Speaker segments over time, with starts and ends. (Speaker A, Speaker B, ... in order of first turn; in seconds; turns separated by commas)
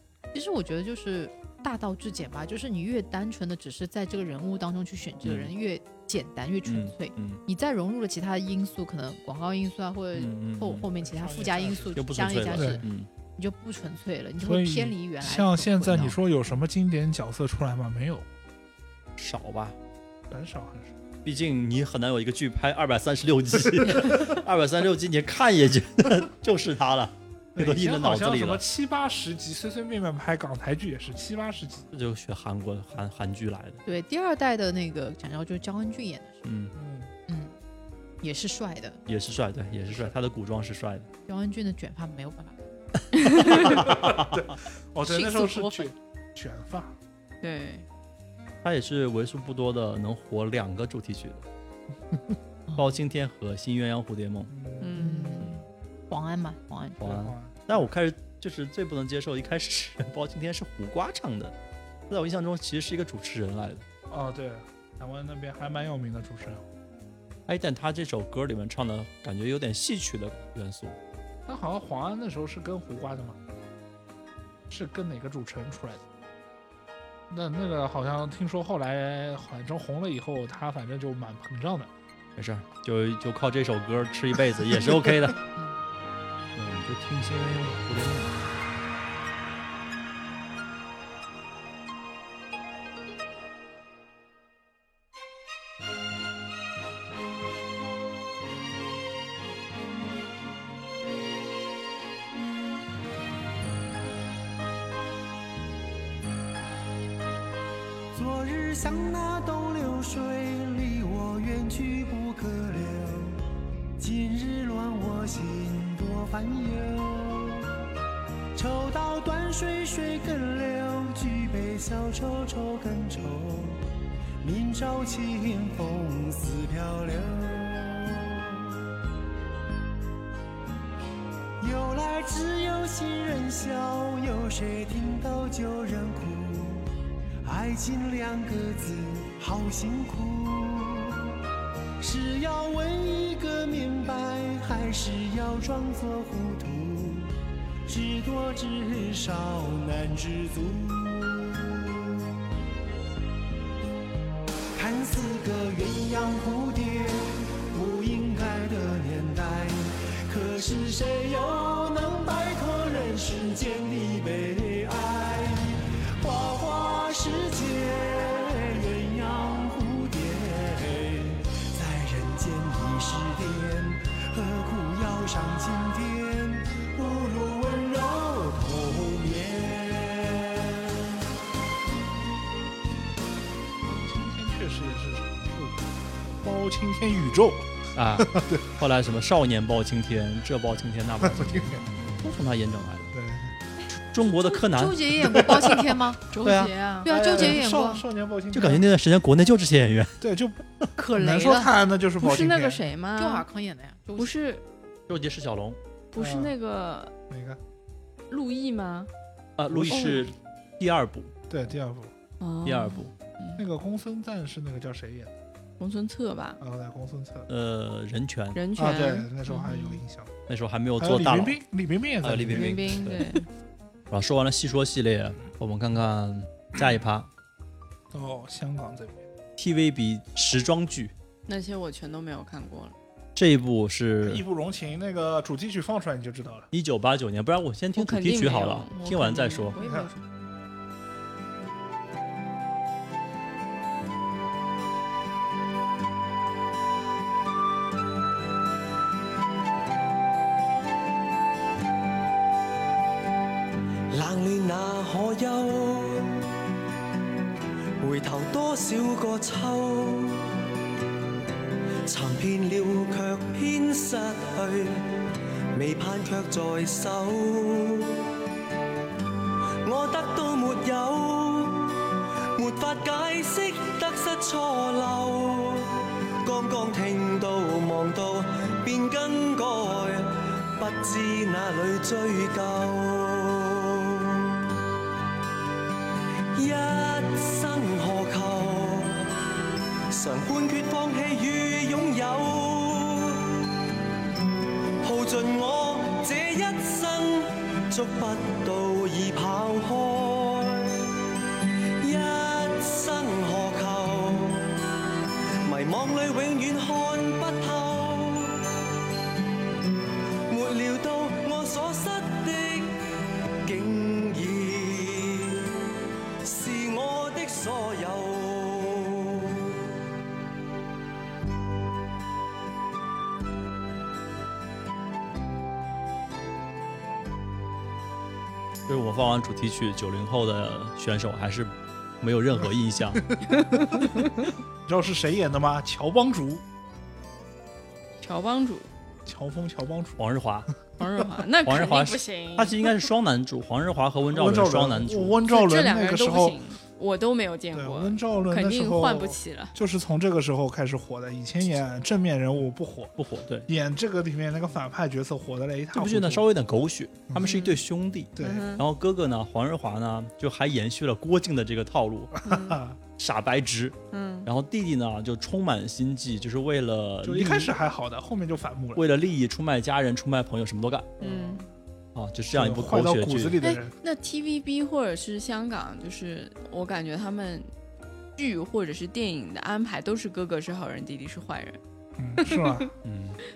Speaker A: 0.3-16.1, Speaker B: 5.2-5.5, Speaker B: 6.7-7.4, Speaker B: 10.1-10.9, Speaker C: 11.0-12.8, Speaker B: 11.9-13.1, Speaker C: 14.4-18.3, Speaker B: 19.2-19.8, Speaker C: 20.3-21.0, Speaker B: 21.2-28.6, Speaker C: 23.8-24.3, Speaker C: 27.5-31.9, Speaker B: 31.9-33.8, Speaker A: 33.8-36.4, Speaker B: 36.4-36.7, Speaker C: 36.7-37.1, Speaker A: 37.3-37.5, Speaker A: 38.2-39.0, Speaker B: 39.1-41.1, Speaker C: 39.9-40.1, Speaker A: 41.3-42.6, Speaker B: 43.5-44.4, Speaker C: 43.5-47.0, Speaker A: 45.0-45.9, Speaker D: 47.4-47.9, Speaker B: 48.6-51.4, Speaker B: 52.8-54.5, Speaker C: 54.5-55.0, Speaker D: 54.8-55.5, Speaker A: 54.9-57.0, Speaker B: 57.0-61.5, Speaker C: 57.0-57.9, Speaker B: 62.1-63.8, Speaker C: 64.1-66.6, Speaker B: 67.5-71.0, Speaker C: 71.5-73.4, Speaker C: 74.7-76.0, Speaker C: 77.3-81.9, Speaker B: 82.4-85.4, Speaker B: 86.5-88.3, Speaker E: 108.1-113.4, Speaker E: 114.0-117.7, Speaker E: 118.5-123.8, Speaker E: 124.4-128.7, Speaker E: 131.6-136.9, Speaker E: 137.4-141.2, Speaker E: 142.0-147.3, Speaker E: 147.8-151.9, Speaker E: 154.7-181.1, Speaker C: 183.9-188.7, Speaker B: 187.9-193.1, Speaker C: 191.2-191.9, Speaker C: 193.1-193.5, Speaker B: 194.0-195.7, Speaker A: 194.5-196.3, Speaker C: 195.4-195.6, Speaker D: 196.3-197.5, Speaker B: 196.4-196.7, Speaker A: 197.0-198.0, Speaker C: 197.0-198.8, Speaker B: 198.5-200.2, Speaker C: 200.2-202.8, Speaker A: 201.0-201.7, Speaker D: 202.2-203.4, Speaker A: 203.2-204.3, Speaker D: 204.2-204.6, Speaker B: 205.1-205.8, Speaker D: 206.1-207.1, Speaker C: 206.1-206.5, Speaker C: 207.3-207.6, Speaker D: 208.3-209.1, Speaker B: 209.6-211.3, Speaker C: 209.7-210.3, Speaker C: 211.5-212.1, Speaker D: 212.4-213.6, Speaker B: 212.6-213.1, Speaker C: 213.6-215.3, Speaker D: 215.8-216.6, Speaker C: 216.6-217.5, Speaker B: 217.5-218.6, Speaker D: 218.5-220.0, Speaker C: 218.8-220.3, Speaker B: 220.5-221.6, Speaker C: 221.0-223.1, Speaker B: 222.2-223.2, Speaker D: 222.5-223.5, Speaker B: 224.1-227.3, Speaker C: 228.1-229.2, Speaker B: 229.6-231.1, Speaker D: 231.5-232.9, Speaker B: 233.3-234.4, Speaker C: 234.2-236.7, Speaker B: 236.7-239.8, Speaker D: 237.9-240.2, Speaker C: 239.8-240.1, Speaker E: 254.1-256.4, Speaker E: 258.0-260.5, Speaker E: 262.0-268.2, Speaker E: 269.8-284.4, Speaker E: 286.5-289.2, Speaker E: 290.1-293.5, Speaker E: 295.0-301.0, Speaker E: 302.0-304.7, Speaker E: 305.6-308.6, Speaker E: 310.5-313.0, Speaker E: 313.6-315.6, Speaker E: 316.4-319.4, Speaker B: 328.9-333.2, Speaker D: 333.5-334.5, Speaker C: 334.9-336.6, Speaker D: 338.2-338.9, Speaker C: 339.2-340.2, Speaker B: 340.2-340.7, Speaker D: 341.0-342.9, Speaker B: 341.6-345.4, Speaker C: 344.3-346.6, Speaker D: 345.5-349.7, Speaker C: 347.7-353.1, Speaker B: 353.2-353.7, Speaker C: 353.7-356.5, Speaker B: 355.9-362.3, Speaker C: 357.3-357.5, Speaker D: 357.4-357.8, Speaker C: 358.4-358.7, Speaker D: 358.4-358.8, Speaker C: 362.4-363.0, Speaker D: 362.4-362.8, Speaker B: 363.2-367.7, Speaker D: 364.1-364.5, Speaker C: 367.2-369.0, Speaker B: 368.9-371.1, Speaker D: 371.2-371.6, Speaker C: 371.2-371.6, Speaker B: 372.1-373.5, Speaker C: 372.5-373.9, Speaker D: 373.6-377.7, Speaker D: 378.4-381.8, Speaker C: 382.2-382.9, Speaker D: 382.4-382.9, Speaker B: 383.0-383.4